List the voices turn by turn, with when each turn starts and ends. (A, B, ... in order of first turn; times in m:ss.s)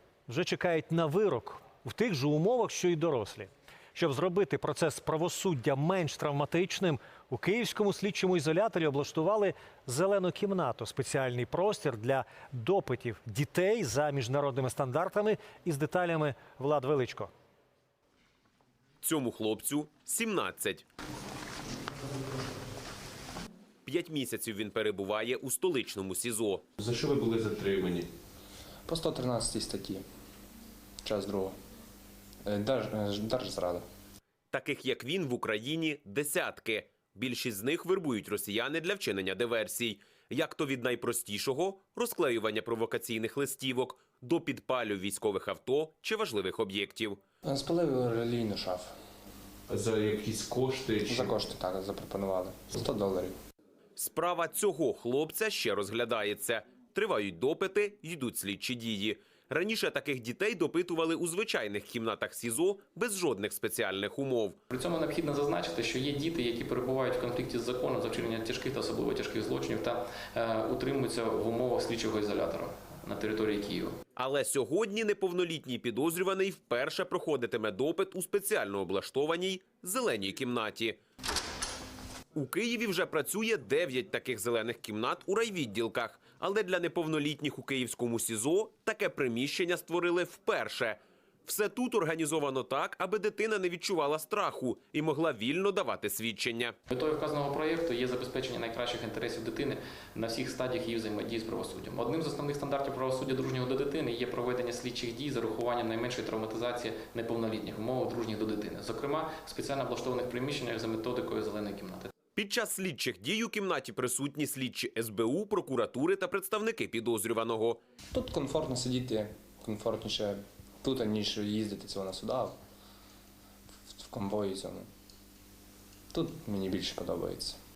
0:00.3-0:17.3 A
0:19.0-0:20.8 B
0:23.9-0:26.6 B
0:26.8-0:28.1 C
0:28.9-0:30.0 D
0:31.0-0:31.5 D
0:32.5-0:33.8 D
0:34.5-0:47.2 B
0:47.4-0:48.9 D
0:49.7-0:51.3 C
0:51.1-0:53.4 D
0:54.0-1:04.6 B
1:04.7-1:14.0 E
1:14.2-1:21.0 B
1:22.4-1:36.8 B
1:36.9-1:52.1 E
1:52.4-1:57.8 B
1:58.1-2:02.5 D
2:04.0-2:04.9 D
2:06.1-2:07.6 D